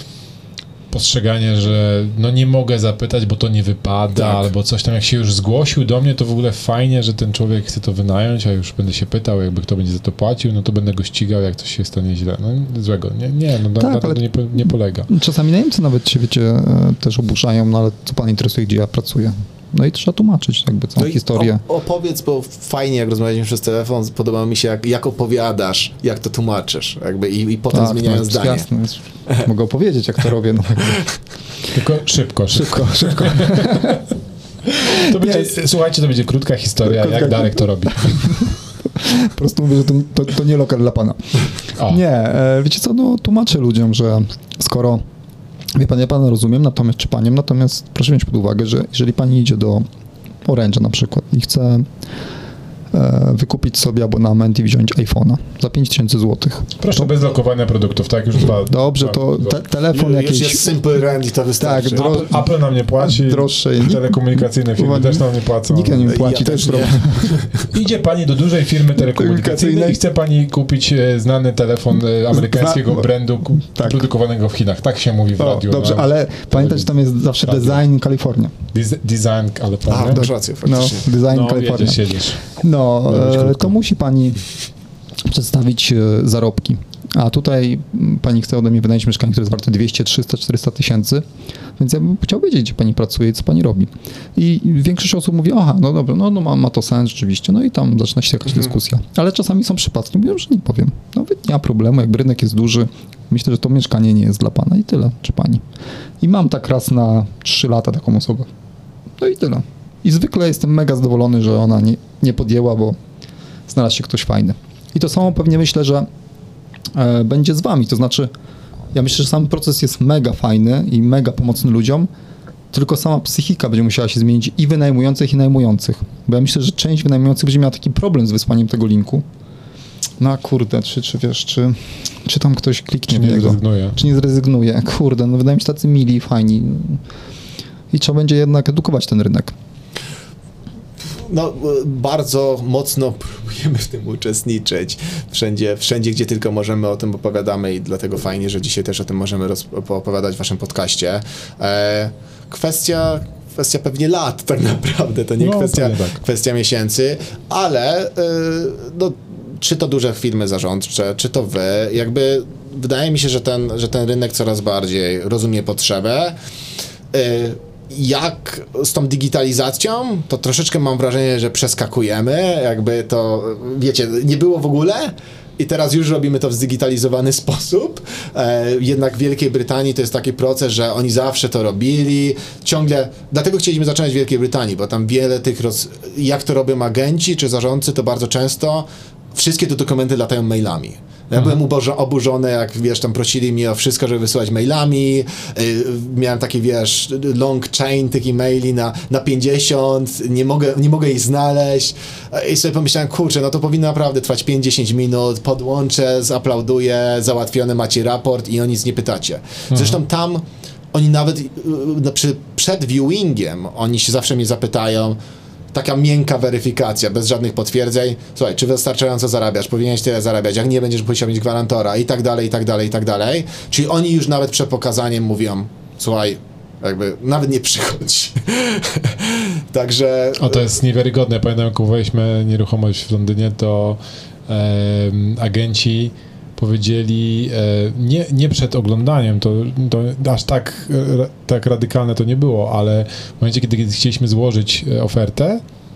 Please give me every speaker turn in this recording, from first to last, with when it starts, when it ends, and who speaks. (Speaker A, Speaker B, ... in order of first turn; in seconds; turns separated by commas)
Speaker A: 0.9-15.1, Speaker B: 4.1-4.5, Speaker C: 13.8-21.6, Speaker B: 21.0-28.7, Speaker C: 27.7-31.0, Speaker A: 31.7-34.1, Speaker C: 32.5-34.0, Speaker A: 34.7-38.6, Speaker C: 34.9-35.6, Speaker C: 36.9-45.0, Speaker C: 45.8-49.9, Speaker C: 50.5-51.9, Speaker C: 52.9-57.2, Speaker A: 56.8-59.6, Speaker C: 58.7-60.7, Speaker B: 59.9-62.2, Speaker C: 61.6-62.4, Speaker A: 62.0-66.2, Speaker C: 63.0-67.4, Speaker B: 66.1-67.7, Speaker A: 67.6-76.9, Speaker C: 69.0-70.0, Speaker C: 72.3-73.1, Speaker C: 73.6-74.1, Speaker C: 75.4-78.5, Speaker A: 77.4-77.8, Speaker A: 78.7-80.3, Speaker B: 79.9-81.1, Speaker C: 80.1-84.4, Speaker A: 81.2-82.4, Speaker A: 83.1-83.7, Speaker C: 85.2-91.3, Speaker C: 91.8-105.6, Speaker C: 106.2-108.5, Speaker C: 109.2-113.0, Speaker C: 113.7-116.1, Speaker C: 116.9-118.3, Speaker C: 118.9-122.1, Speaker C: 122.7-129.2, Speaker C: 130.2-137.0, Speaker A: 133.1-134.0, Speaker C: 137.9-139.6, Speaker B: 141.1-166.4, Speaker A: 155.4-156.2, Speaker B: 167.1-215.2, Speaker A: 209.7-210.0, Speaker B: 215.7-230.6, Speaker A: 230.4-245.6